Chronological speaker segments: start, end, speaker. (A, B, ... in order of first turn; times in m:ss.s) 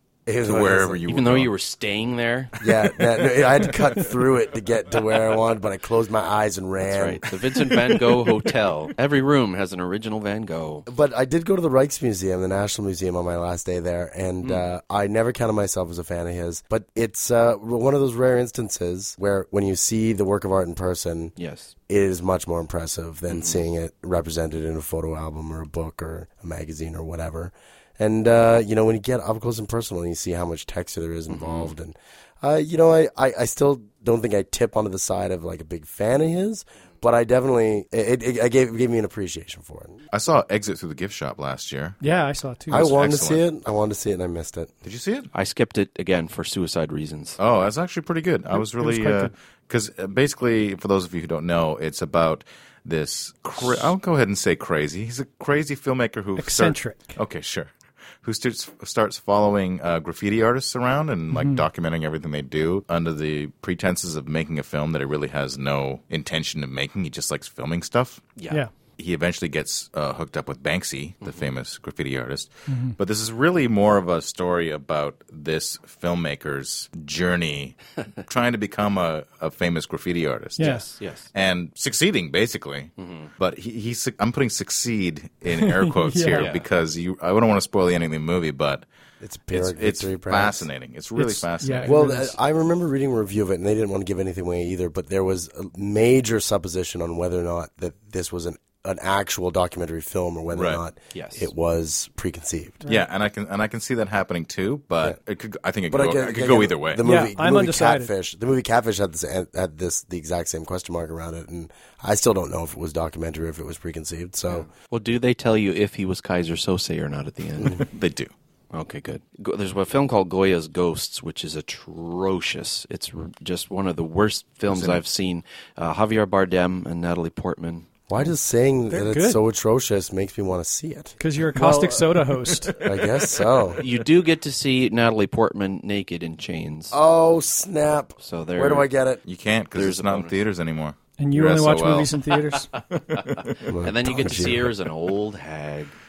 0:00.3-0:01.0 A
0:00.4-0:01.5 B
0:01.1-0:02.8 C
0:02.6-0:07.9 A
0:06.8-0:10.9 C
0:10.9-0:21.3 A
0:21.4-0:21.7 C
0:21.9-0:40.0 A
0:23.3-0:23.6 C
0:31.3-0:31.7 C
0:40.1-0:42.0 B
0:42.0-0:42.9 D
0:42.7-0:44.7 A
0:42.7-0:43.4 B
0:44.8-0:45.3 B
0:45.3-0:47.4 C
0:47.4-1:08.2 B
0:48.5-0:49.3 D
0:56.4-0:57.2 D
1:01.3-1:01.6 D
1:09.0-1:20.8 B
1:12.7-1:13.0 D
1:20.6-1:20.9 D
1:20.6-1:21.3 C
1:21.3-1:28.9 B
1:23.0-1:23.3 C
1:25.5-1:26.5 D
1:26.3-1:26.6 C
1:29.2-1:30.7 A
1:29.5-1:32.0 B
1:31.2-1:32.4 D
1:31.8-1:42.8 A
1:40.5-1:40.8 B
1:41.1-1:41.5 C
1:42.9-1:47.0 B
1:45.9-1:54.7 A
1:47.0-1:48.1 D
1:54.5-1:57.9 C
1:57.9-1:58.3 B
1:58.7-2:07.9 C
2:04.7-2:05.0 B
2:08.1-2:12.2 A
2:08.9-2:09.4 D
2:11.2-2:12.8 D
2:12.8-2:13.8 A
2:13.8-2:17.0 C
2:16.9-2:19.2 A
2:18.2-2:18.9 C
2:19.3-2:22.2 B
2:19.8-2:20.3 C
2:21.2-2:22.8 D
2:22.8-2:23.7 B
2:23.7-2:24.7 A
2:23.8-2:25.9 C